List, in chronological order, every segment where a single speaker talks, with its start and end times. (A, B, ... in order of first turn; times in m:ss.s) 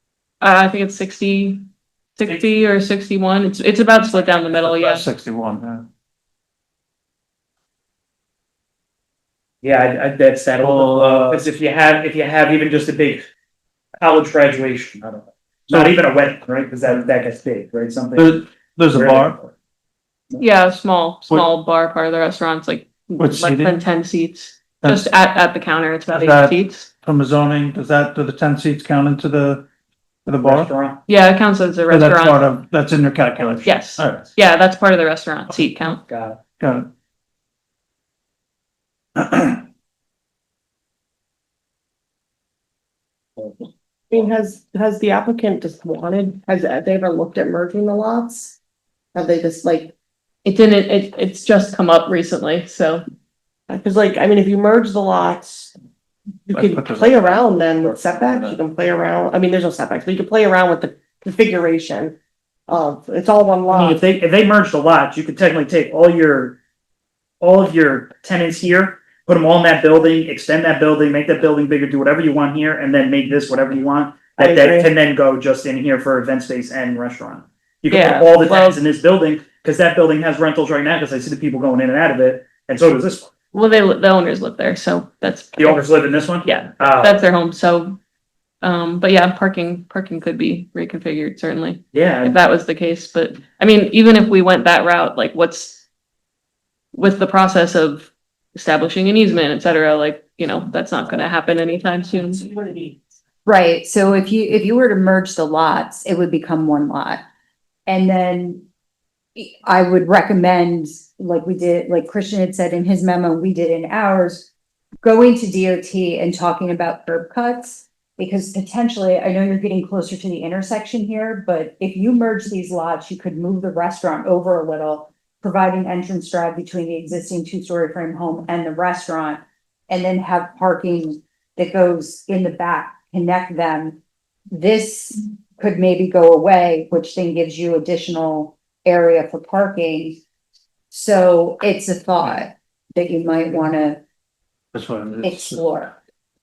0:00.4-0:05.1 A
0:04.5-0:05.9 B
0:09.6-0:13.2 C
0:10.6-0:11.5 B
0:14.0-0:18.4 C
0:15.7-0:16.0 B
0:18.2-0:19.4 B
0:18.9-0:19.5 C
0:20.4-0:26.9 A
0:23.2-0:23.8 B
0:24.8-0:25.1 B
0:26.1-0:29.7 B
0:30.3-0:30.7 B
0:30.4-0:31.0 C
0:31.1-0:32.4 A
0:31.9-0:34.4 B
0:33.6-0:36.0 A
0:36.1-0:36.4 C
0:36.6-0:36.9 B
0:44.1-0:48.6 D
0:49.1-0:49.9 D
0:50.4-0:53.0 A
0:53.7-0:55.7 D
0:56.5-1:02.2 D
0:56.5-0:57.1 B
1:02.7-1:04.0 D
1:03.7-1:06.6 C
1:07.4-1:23.3 C
1:14.4-1:14.9 D
1:23.5-1:25.9 A
1:25.6-1:27.2 C
1:26.4-1:28.0 A
1:28.6-1:35.8 A
1:31.9-1:32.4 C
1:36.9-1:42.4 A
1:42.4-1:43.0 D
1:43.5-1:47.2 E
1:47.9-1:48.6 E
1:49.4-1:54.5 E
1:55.0-2:14.0 E
2:14.5-2:20.2 E
2:20.9-2:24.0 E
2:24.7-2:25.6 B
2:25.2-2:26.0 E